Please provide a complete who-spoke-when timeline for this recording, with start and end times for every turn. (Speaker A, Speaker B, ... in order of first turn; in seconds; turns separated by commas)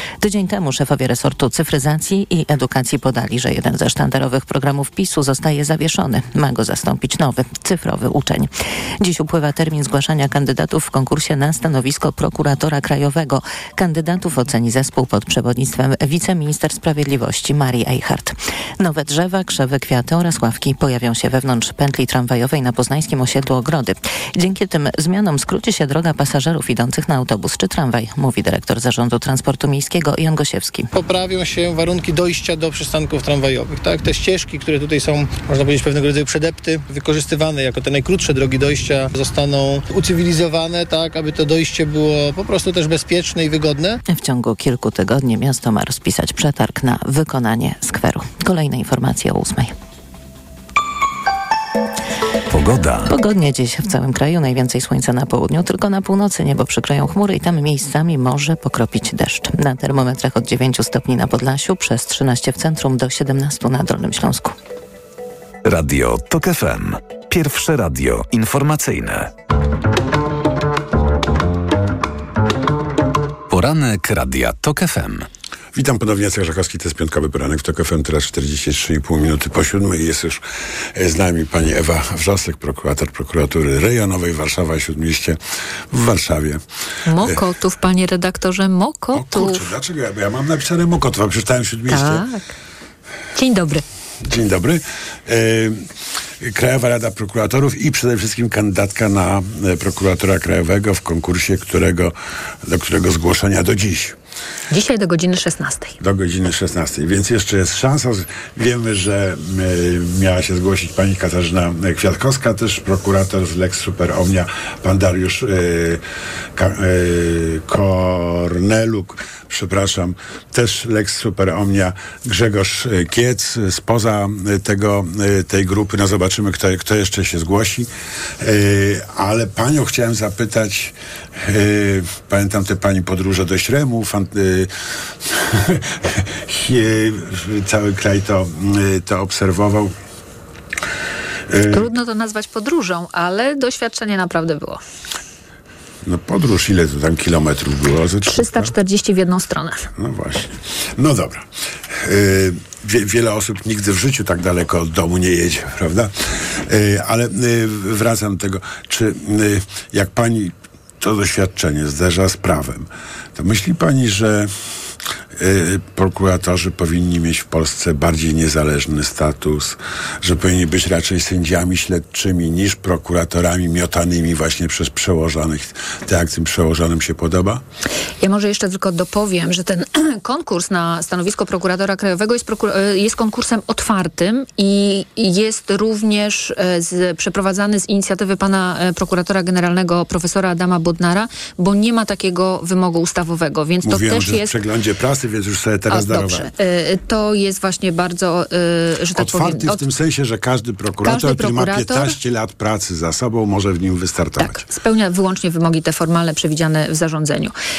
Speaker A: 0.2-30.9, Speaker B: 30.9-44.0, Speaker A: 44.1-49.7, Speaker C: 52.5-53.1, Speaker A: 53.1-64.5, Speaker C: 65.7-69.3, Speaker C: 73.5-75.3, Speaker D: 75.7-80.4, Speaker D: 81.0-85.4, Speaker D: 85.9-86.6, Speaker E: 87.1-89.7, Speaker D: 89.1-92.2, Speaker E: 91.9-92.5, Speaker E: 93.3-93.8, Speaker D: 94.2-95.8, Speaker D: 96.4-104.2, Speaker E: 104.7-106.0, Speaker D: 106.0-116.0, Speaker D: 116.5-127.9, Speaker D: 128.4-134.7, Speaker D: 135.2-139.9, Speaker D: 141.5-141.9, Speaker E: 141.7-144.8, Speaker D: 146.1-148.7, Speaker E: 148.2-149.9, Speaker D: 150.0-164.5, Speaker D: 165.4-177.6, Speaker E: 178.2-194.5, Speaker D: 193.8-196.5, Speaker E: 195.9-199.8, Speaker D: 199.2-204.6, Speaker E: 201.0-202.2, Speaker E: 204.4-207.5